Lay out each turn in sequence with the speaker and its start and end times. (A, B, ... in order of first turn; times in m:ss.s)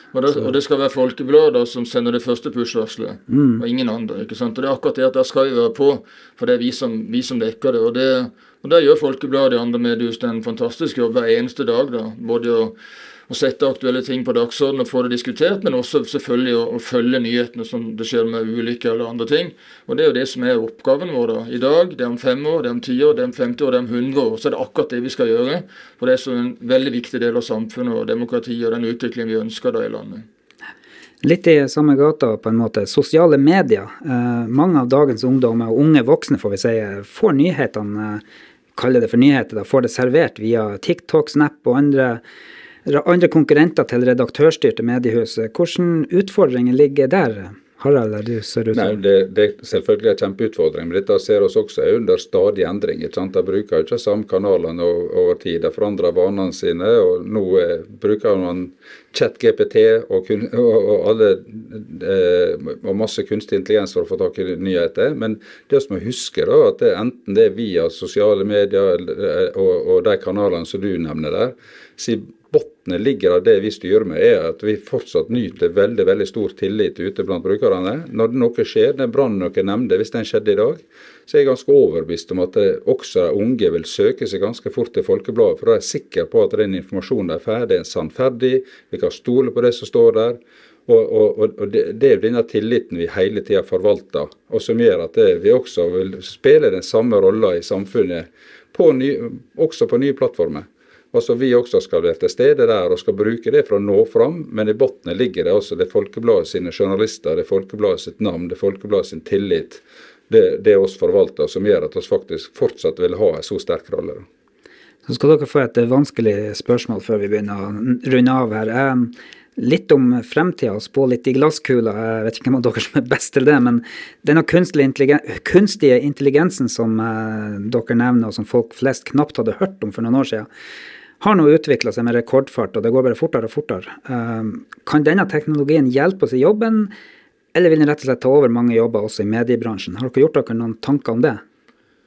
0:00.1-0:12.8 A
0:03.3-0:03.6 B
0:13.3-0:30.2 A
0:31.2-0:38.2 B
0:38.8-0:42.2 B
0:42.9-0:49.0 B
0:48.7-1:54.2 C
1:55.1-2:10.5 B
2:11.2-2:16.9 B
2:17.5-2:21.4 B